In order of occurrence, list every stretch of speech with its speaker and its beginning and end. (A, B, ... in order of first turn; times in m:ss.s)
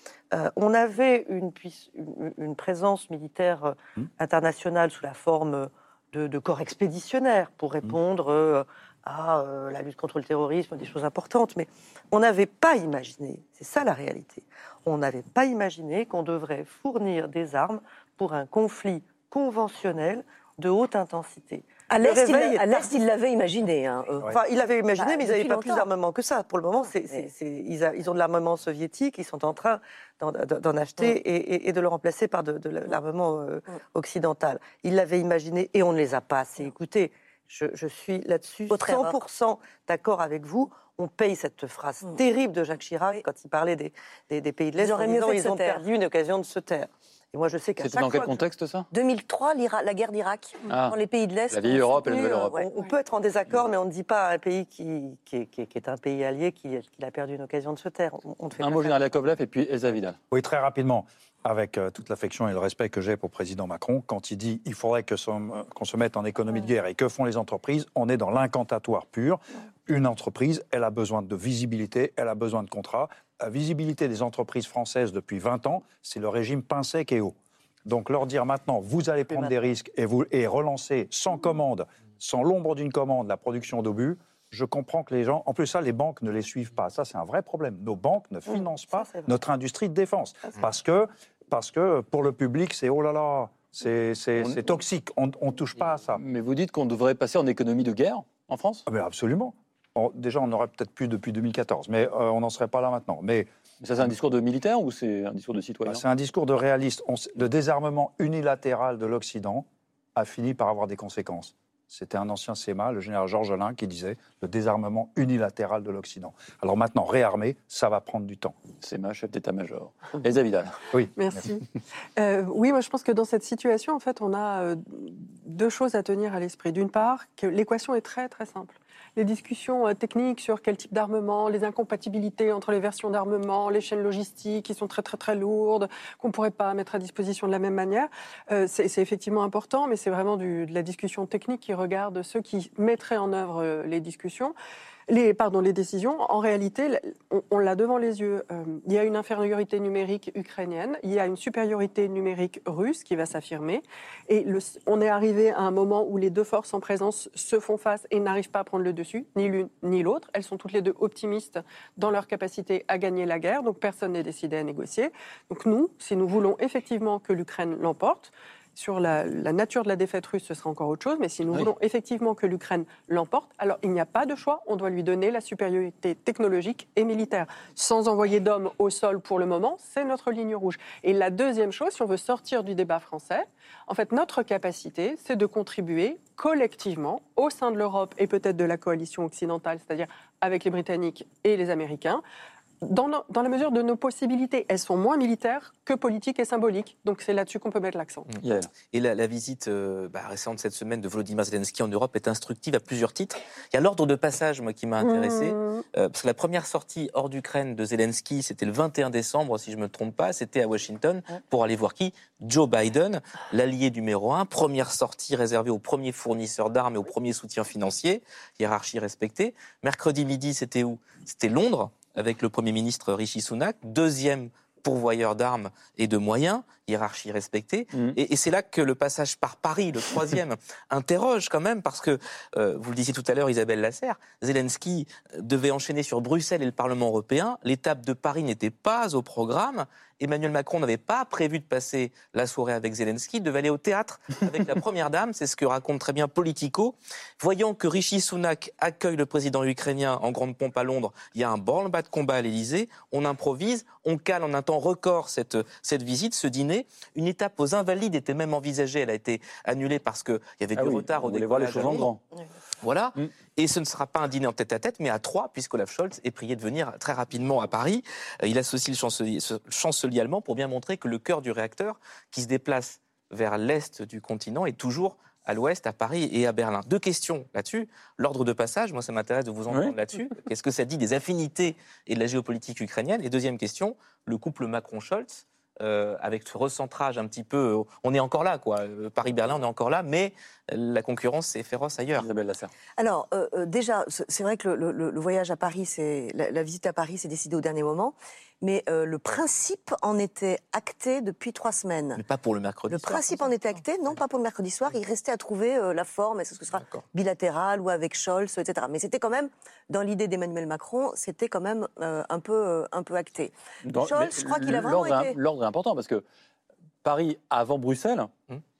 0:00.3-0:22.9 A
0:21.9-0:24.3 B
0:24.2-0:48.4 A
0:25.0-0:25.9 B
0:38.7-0:39.2 B
0:44.8-0:45.8 B
0:47.8-0:48.9 C
0:48.9-0:52.7 B
0:50.7-0:51.0 C
0:51.5-0:52.6 C
0:52.0-0:59.0 A
0:58.6-1:00.2 C
1:00.3-1:17.3 D
1:17.8-1:36.2 D
1:28.5-1:29.3 A
1:36.2-1:38.8 C
1:38.9-1:43.5 D
1:43.8-1:46.0 C
1:45.8-1:58.6 D
1:58.8-2:00.9 C
2:00.9-2:01.4 D
2:01.2-2:01.6 E
2:02.2-2:24.5 E
2:25.1-3:12.2 E
3:12.8-3:18.3 E
3:18.4-3:18.7 C
3:18.9-4:22.1 F
3:25.0-3:25.8 E
3:47.9-3:48.2 C
4:20.7-4:22.2 C
4:22.8-4:52.3 F
4:39.7-4:39.9 C
4:52.2-4:52.7 C
4:53.0-5:02.2 B
5:02.2-5:03.5 F
5:02.9-5:15.4 B
5:13.8-5:16.2 C
5:17.0-5:18.3 C